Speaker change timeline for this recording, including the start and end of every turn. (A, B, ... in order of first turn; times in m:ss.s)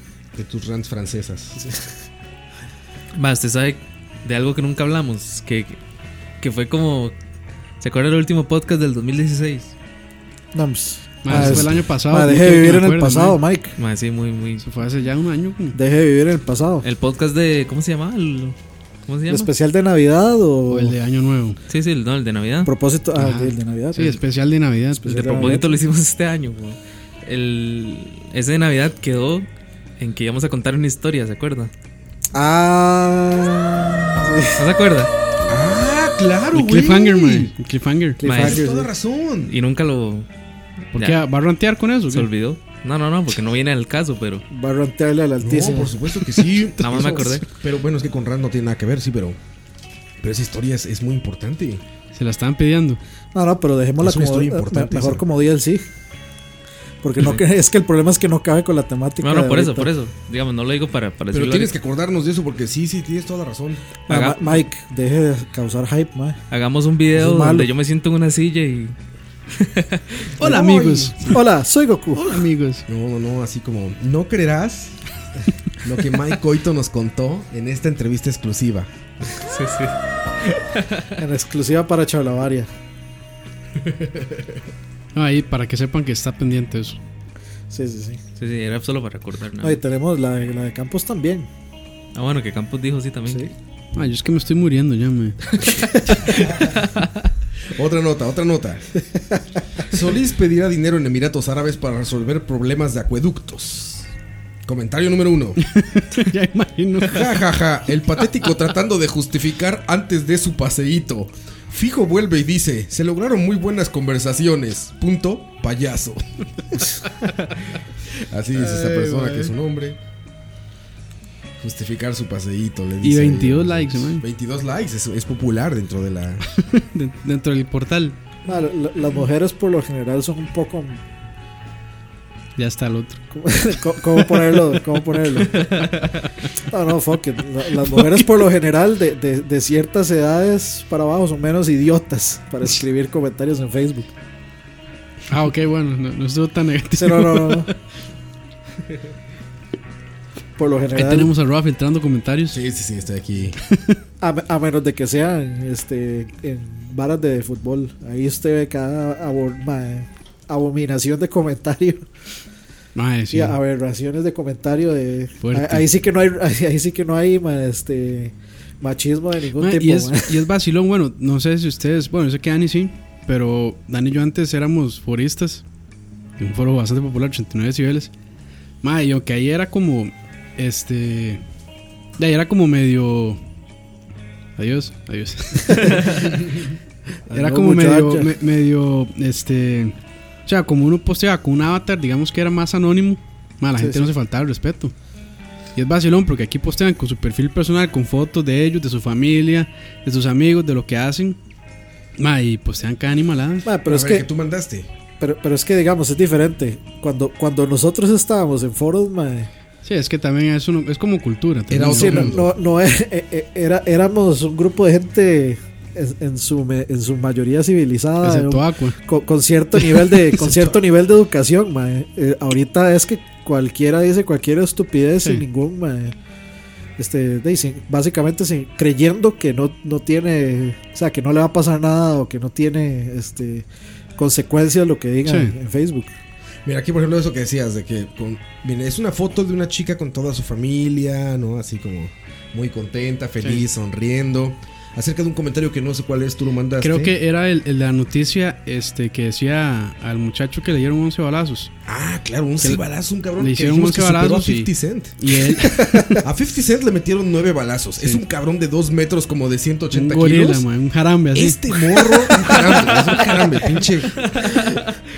0:00.4-0:01.6 A
0:03.1-0:05.8 B
0:06.4-0:07.1 B
0:07.8-0:09.7 B
0:10.5-0:13.7 C
0:11.2-0:13.4 D
0:11.3-0:11.8 A
0:13.8-0:14.6 B
0:14.6-0:15.8 D
0:15.7-0:16.8 C
0:16.8-0:18.6 B
0:19.1-0:19.5 B
0:19.3-0:21.0 C
0:20.7-0:21.6 D
0:21.7-0:22.7 B
0:22.6-0:24.2 C
0:23.2-0:25.5 D
0:25.0-0:25.8 C
0:25.1-0:29.5 B
0:30.0-0:31.7 B
0:32.3-0:34.6 C
0:34.6-0:35.1 B
0:35.5-0:37.5 A
0:36.5-0:38.2 D
0:38.2-0:38.9 C
0:38.2-0:38.6 B
0:38.3-0:39.6 A
0:39.5-0:40.3 B
0:40.9-0:41.2 B
0:41.0-0:42.3 D
0:42.1-0:44.4 B
0:44.5-0:45.9 C
0:45.4-0:49.4 A
0:46.5-0:47.2 D
0:46.8-0:47.4 B
0:50.2-0:51.8 A
0:52.1-0:53.0 D
0:53.3-0:55.8 C
0:54.0-0:55.2 A
0:57.0-0:59.9 C
0:59.2-1:01.7 B
1:01.3-1:03.9 A
1:04.1-1:04.6 B
1:04.1-1:06.4 C
1:06.5-1:08.9 B
1:07.2-1:07.7 C
1:09.5-1:10.3 B
1:10.4-1:11.4 A
1:10.4-1:11.4 D
1:11.3-1:12.4 C
1:12.2-1:12.8 D
1:12.9-1:15.0 A
1:15.8-1:18.9 A
1:19.2-1:21.2 B
1:21.2-1:22.7 C
1:25.2-1:27.0 D
1:27.7-1:28.2 C
1:28.4-1:29.8 B
1:29.6-1:31.5 C
1:32.2-1:33.5 B
1:34.0-1:35.7 D
1:36.4-1:36.7 A
1:36.7-1:37.3 B
1:37.7-1:38.9 A
1:39.9-1:44.1 A
1:44.7-1:45.6 A
1:45.6-1:47.4 D
1:47.0-1:57.0 A
1:58.1-2:00.0 A
1:58.6-1:59.5 D
2:01.6-2:06.5 A
2:03.0-2:04.2 D
2:06.5-2:08.2 D
2:08.5-2:11.0 C
2:12.6-2:13.2 D
2:13.3-2:15.6 C
2:14.3-2:14.7 D
2:16.7-2:24.1 C
2:25.3-2:27.7 D
2:27.0-2:27.7 C
2:30.6-2:31.3 C
2:31.0-2:32.6 D
2:32.5-2:33.6 A
2:34.2-2:42.0 C
2:43.0-2:43.6 D
2:43.3-2:50.4 C
2:45.4-2:45.9 D
2:49.6-2:55.6 D
2:56.4-2:58.1 D
2:58.8-3:01.4 D
3:02.2-3:03.4 D
3:04.6-3:06.4 D
3:07.3-3:08.3 C
3:07.3-3:10.0 D
3:10.5-3:14.9 D
3:13.8-3:14.1 C
3:15.8-3:21.4 D
3:22.2-3:23.7 D
3:23.6-3:24.3 C
3:23.9-3:24.9 A
3:25.2-3:29.5 C
3:29.8-3:32.4 D
3:31.7-3:32.5 A
3:31.9-3:46.1 C
3:38.2-3:39.0 D
3:39.8-3:40.2 D
3:40.4-3:40.8 A
3:47.0-3:53.7 C
3:54.2-3:56.1 C
3:55.3-3:55.5 D
3:56.6-4:07.2 A
4:06.8-4:11.7 D
4:11.9-4:15.4 A
4:13.4-4:16.2 D
4:15.8-4:16.2 C
4:16.2-4:20.7 A
4:19.9-4:21.8 D
4:21.3-4:24.8 A
4:24.4-4:24.8 B